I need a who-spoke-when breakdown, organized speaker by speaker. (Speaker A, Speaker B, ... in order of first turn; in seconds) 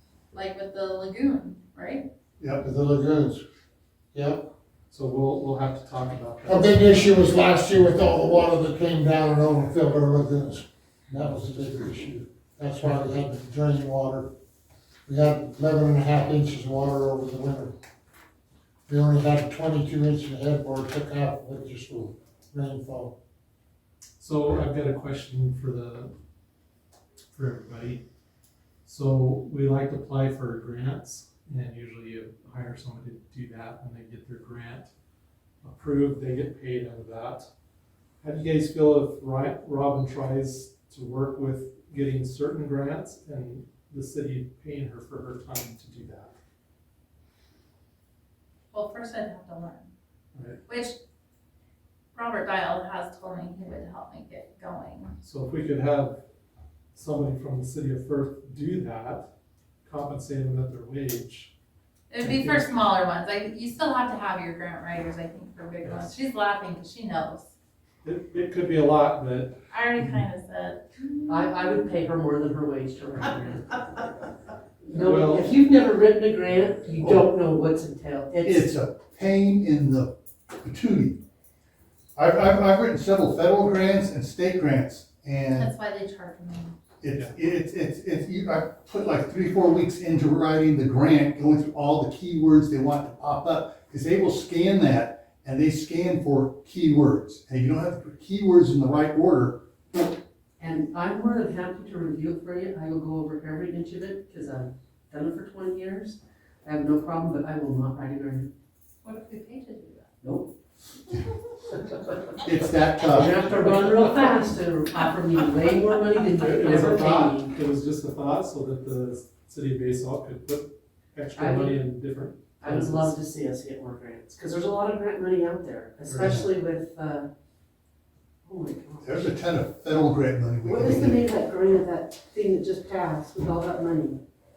Speaker A: 0.3-2.1, 48.7-49.9, 50.7-51.0, 52.1-55.1, 62.1-67.5, 69.7-71.8, 85.5-86.8, 109.0-110.1
Speaker B: 2.6-3.4, 4.1-4.5, 6.5-14.3, 15.1-17.7, 18.9-23.1
Speaker C: 4.9-7.3, 24.2-26.1, 27.3-28.0, 28.9-34.9, 35.6-37.5, 38.2-46.3, 55.2-56.2, 56.9-59.3, 59.9-61.5, 62.2-62.7, 65.8-66.1, 68.0-69.6, 74.9-75.6, 116.3-123.2
Speaker D: 71.3-74.3, 74.8-78.7, 100.6-108.5, 110.2-110.5, 113.1-117.5, 121.4-121.8, 122.6-127.3, 128.4-129.2, 130.7-134.2
Speaker E: 77.0-77.3, 78.4-81.2, 82.2-85.7, 87.0-99.6, 112.4-114.2, 126.1-126.4, 129.0-131.2